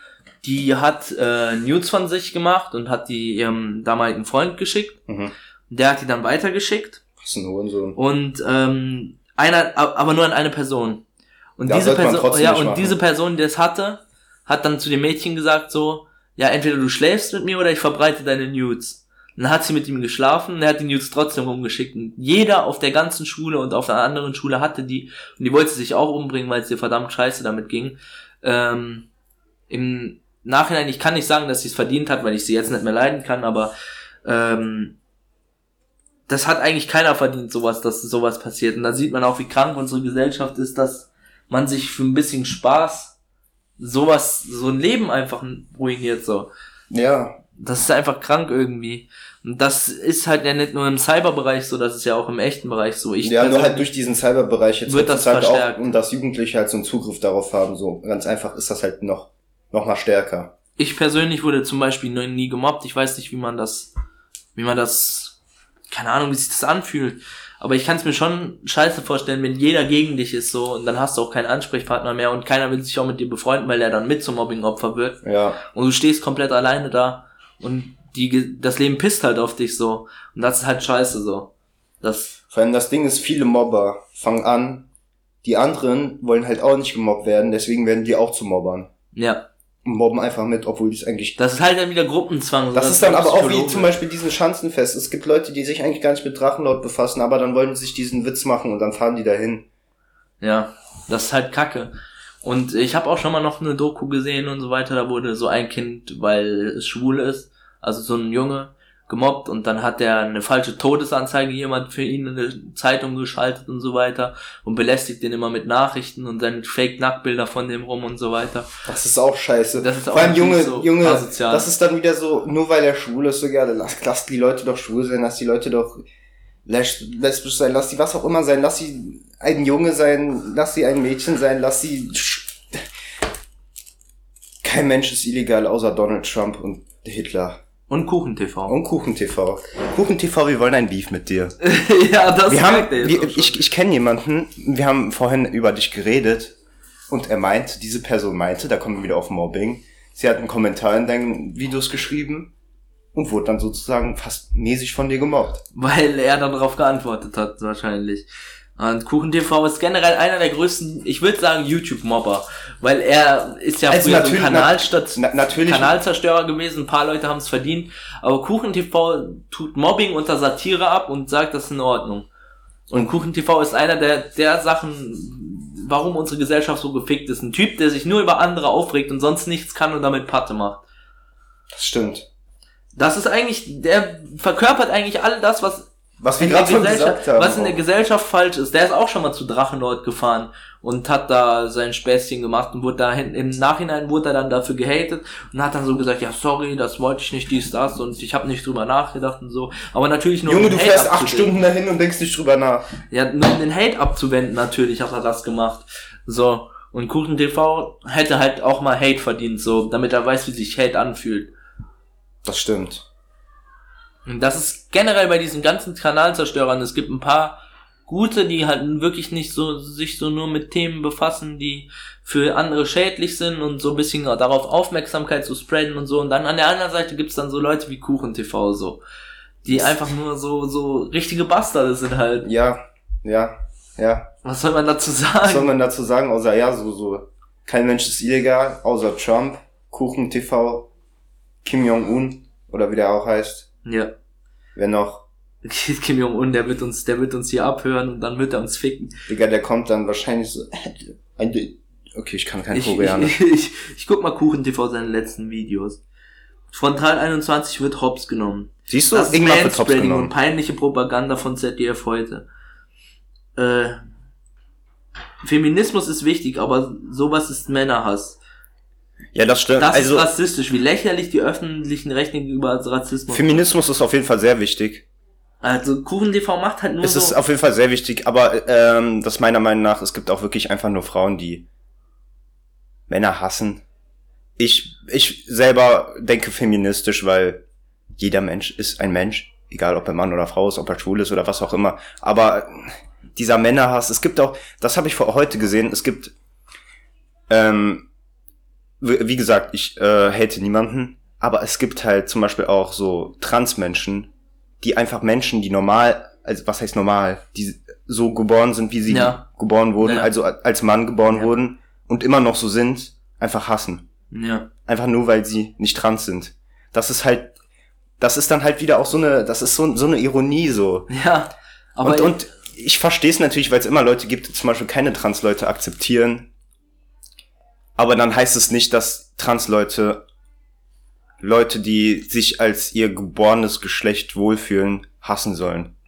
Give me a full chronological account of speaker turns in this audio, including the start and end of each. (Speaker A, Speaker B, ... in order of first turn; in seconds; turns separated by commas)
Speaker A: 0.4-5.0, Speaker B: 5.1-5.3, Speaker A: 5.7-7.0, Speaker B: 7.2-8.0, Speaker A: 8.0-11.0, Speaker A: 11.6-29.1, Speaker B: 11.7-13.0, Speaker A: 29.7-33.7, Speaker A: 34.2-35.0, Speaker A: 36.3-43.1, Speaker A: 43.8-46.5, Speaker B: 46.9-47.4, Speaker A: 47.6-53.9, Speaker B: 53.2-60.5, Speaker A: 54.9-55.9, Speaker A: 60.8-63.9, Speaker A: 64.5-65.4, Speaker A: 65.9-82.4, Speaker B: 75.2-75.6, Speaker B: 82.5-84.9, Speaker B: 85.4-88.9, Speaker A: 89.2-89.4, Speaker B: 89.8-91.4, Speaker A: 91.4-93.9, Speaker B: 92.7-99.7, Speaker A: 100.4-101.9, Speaker A: 102.4-118.7, Speaker B: 118.8-126.0, Speaker A: 119.8-121.7, Speaker B: 126.7-132.9, Speaker B: 134.6-137.6, Speaker A: 137.9-138.8, Speaker B: 138.7-141.6, Speaker A: 141.6-143.6, Speaker B: 142.5-146.5, Speaker B: 147.1-152.5, Speaker B: 153.1-155.6, Speaker A: 155.7-172.3, Speaker B: 163.9-165.9, Speaker A: 172.9-180.8, Speaker B: 181.7-182.3, Speaker A: 182.9-201.5, Speaker B: 186.2-187.8, Speaker B: 200.5-202.9, Speaker A: 203.1-211.5, Speaker B: 212.4-213.1, Speaker A: 214.3-229.0, Speaker A: 229.6-232.5, Speaker B: 229.7-230.0, Speaker B: 232.4-234.3, Speaker A: 234.4-235.7, Speaker B: 235.4-240.9, Speaker B: 241.6-243.7, Speaker A: 243.8-244.1, Speaker B: 244.8-245.2, Speaker A: 245.6-249.2, Speaker B: 249.3-253.3, Speaker A: 252.7-256.0, Speaker A: 256.7-262.4, Speaker B: 258.9-260.3, Speaker A: 263.6-264.0, Speaker A: 265.4-268.4, Speaker B: 269.3-270.3, Speaker A: 269.8-273.6, Speaker B: 273.3-275.1, Speaker A: 275.6-277.4, Speaker B: 277.0-281.6, Speaker B: 283.1-283.8, Speaker B: 284.6-287.6, Speaker B: 288.2-296.3, Speaker B: 297.5-298.1, Speaker B: 299.0-304.3, Speaker B: 304.8-314.0, Speaker A: 309.1-309.4, Speaker A: 310.0-310.3, Speaker A: 314.3-314.7, Speaker B: 314.9-317.6, Speaker B: 318.2-321.1, Speaker A: 321.1-322.4, Speaker B: 322.0-326.5, Speaker B: 328.0-330.2, Speaker B: 331.4-335.9